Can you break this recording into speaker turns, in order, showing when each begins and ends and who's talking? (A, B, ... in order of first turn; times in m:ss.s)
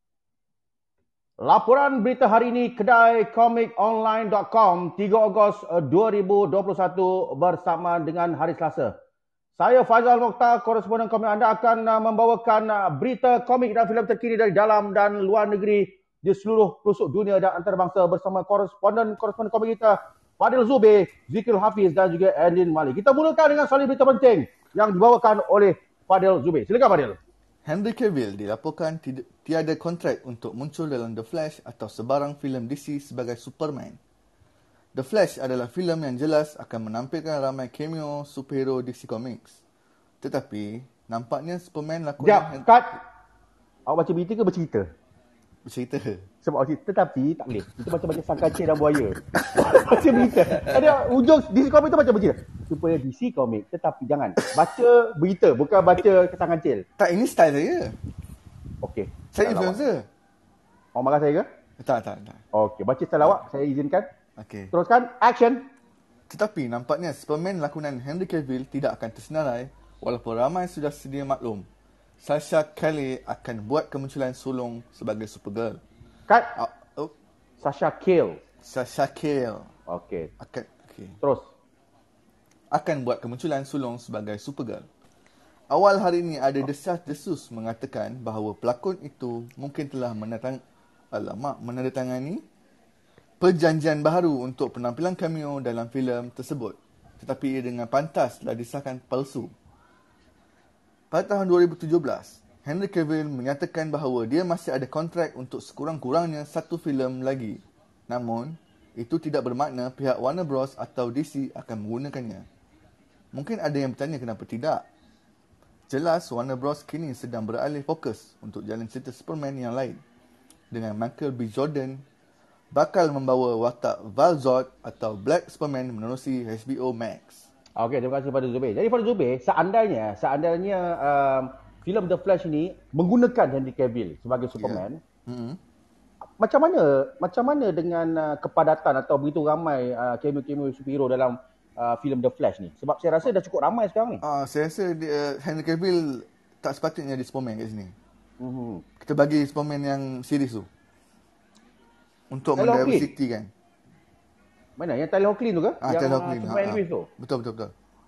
0:01.4-0:09.0 A
0:09.6-0:27.2 A
0:27.6-0:34.0 B
0:34.9-0:39.6 B
0:40.2-0:42.7 B
0:42.2-0:43.0 A
0:43.9-0:44.9 A
0:45.6-0:46.3 B
0:46.4-0:56.8 A
0:49.6-0:50.8 B
0:57.0-0:58.0 B
0:58.8-0:59.8 A
0:59.3-1:00.1 B
1:01.0-1:01.5 A
1:01.8-1:02.4 B
1:02.5-1:04.1 A
1:04.4-1:04.7 B
1:04.7-1:05.7 A
1:06.3-1:11.7 B
1:12.2-1:15.8 B
1:16.3-1:16.6 A
1:16.6-1:17.1 B
1:17.6-1:18.4 A
1:18.6-1:19.7 B
1:19.9-1:20.3 A
1:20.4-1:21.2 B
1:21.2-1:21.5 A
1:22.7-1:24.9 B
1:25.7-1:30.6 B
1:31.1-1:32.4 B
1:33.4-1:39.5 B
1:41.1-1:52.4 B
1:53.3-1:54.8 B
1:55.9-2:00.0 B
2:00.7-2:02.0 B
2:02.7-2:07.5 B
2:07.8-2:15.0 A
2:14.6-2:15.6 B
2:16.4-2:24.2 A
2:24.2-2:27.9 B
2:28.4-2:28.8 A
2:29.0-2:30.7 B
2:32.3-2:33.5 B
2:32.6-2:33.1 A
2:34.8-2:37.1 A
2:35.8-2:37.7 B